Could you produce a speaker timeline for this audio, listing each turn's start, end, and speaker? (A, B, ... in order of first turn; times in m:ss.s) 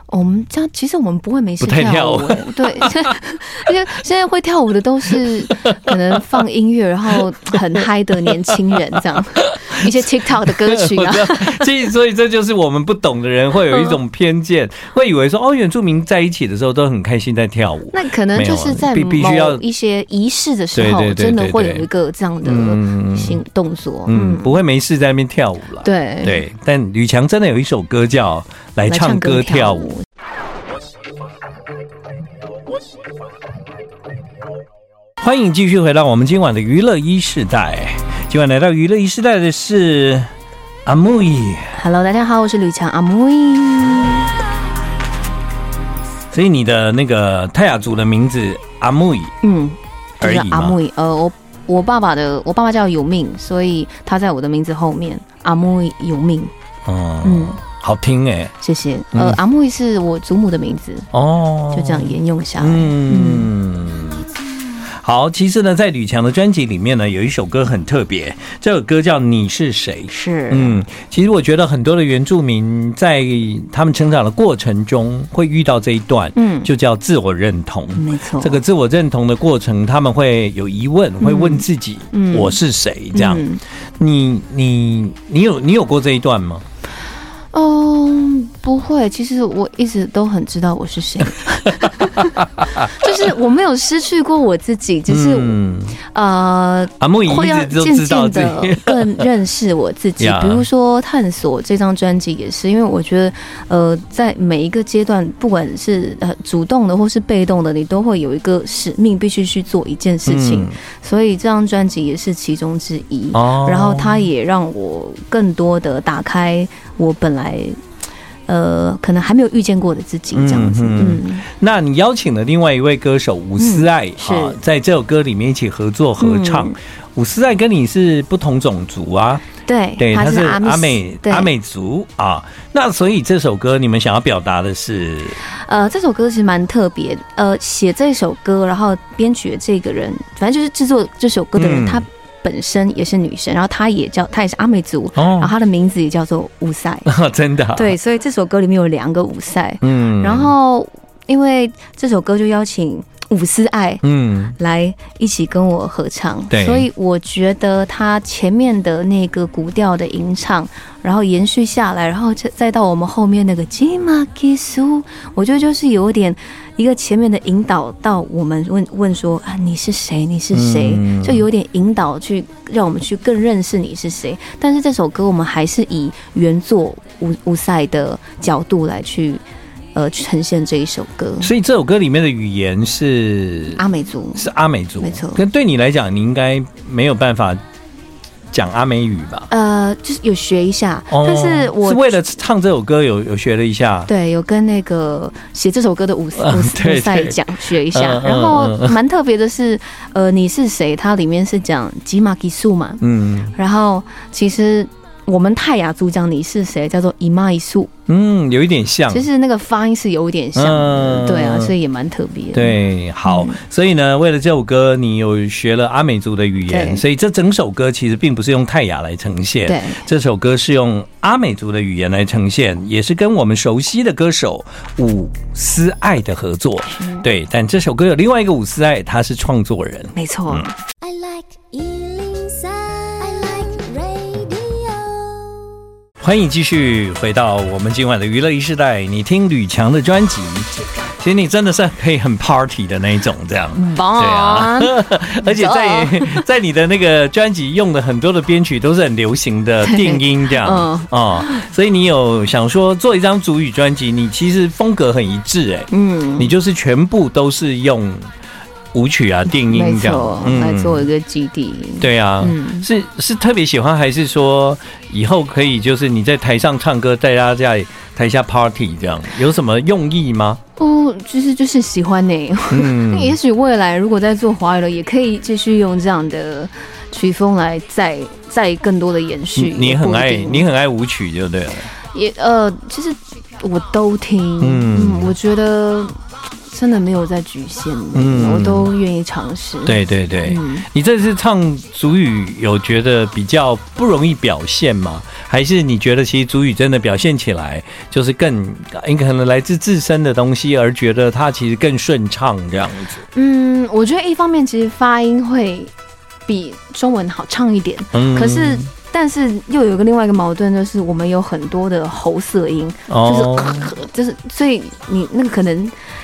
0:00.1-0:11.7 A
0:01.6-0:03.1 B
0:05.6-0:05.9 B
0:08.3-0:08.8 B
0:09.4-0:09.9 B
0:10.4-0:19.6 B
0:13.7-0:14.0 A
0:17.9-0:24.6 A
0:20.8-0:21.9 B
0:22.4-0:23.4 B
0:24.1-0:29.9 B
0:25.8-0:26.4 A
0:28.9-0:30.0 A
0:35.2-0:40.3 B
0:40.9-0:41.8 B
0:41.8-0:44.3 A
0:46.3-0:49.3 B
0:49.4-0:56.5 A
0:50.2-0:50.8 B
0:56.9-0:58.5 B
0:57.2-0:57.6 A
0:58.6-1:01.1 A
0:59.1-0:59.4 B
1:01.1-1:04.3 B
1:01.7-1:03.5 A
1:05.0-1:23.5 B
1:10.1-1:10.8 A
1:16.4-1:16.7 A
1:18.0-1:18.6 A
1:21.2-1:22.6 A
1:23.1-1:23.6 A
1:24.0-1:26.6 B
1:27.5-1:32.4 A
1:31.6-1:33.2 B
1:33.0-1:57.8 A
1:35.1-1:36.0 B
1:37.0-1:39.3 B
1:40.2-1:40.6 B
1:50.3-1:50.8 B
1:53.3-1:54.2 B
1:58.5-2:01.4 A
2:00.3-2:09.4 B
2:03.6-2:04.6 A
2:06.2-2:06.8 A
2:09.6-2:11.5 A
2:10.0-2:15.4 B
2:15.4-2:27.1 A
2:21.6-2:22.0 B
2:25.2-2:25.5 B
2:27.1-2:27.9 B
2:27.8-2:34.0 A
2:29.8-2:30.5 B
2:34.0-2:34.6 B
2:34.6-3:01.5 A
2:36.5-2:36.9 B
2:50.5-2:51.5 B
3:01.4-3:03.8 B
3:03.8-3:05.4 A
3:04.4-3:07.6 B
3:08.5-3:09.5 B
3:09.5-3:12.2 A
3:11.1-3:14.1 B
3:14.1-3:23.0 A
3:16.4-3:19.0 B
3:23.0-3:23.5 B
3:23.5-3:27.9 A
3:28.1-3:29.3 B
3:29.1-3:33.6 A
3:30.6-3:31.7 B
3:32.5-3:50.7 B
3:36.7-3:37.0 A
3:39.7-3:40.1 A
3:46.9-3:47.2 A
3:50.2-3:50.7 A
3:51.0-3:55.6 C
3:56.2-4:18.3 B
4:03.8-4:06.4 A
4:09.8-4:11.6 A
4:15.9-4:16.5 A
4:18.9-4:21.1 B
4:19.5-4:22.9 A
4:22.0-4:30.6 B
4:30.8-4:40.7 A
4:32.7-4:33.4 B
4:39.6-4:41.9 B
4:42.1-4:46.1 A
4:44.6-4:45.3 B
4:46.7-4:50.9 A
4:48.2-4:48.9 B
4:49.8-5:03.2 B
5:03.3-5:05.9 A
5:06.5-5:16.0 A
5:08.1-5:08.9 B
5:13.1-5:13.9 B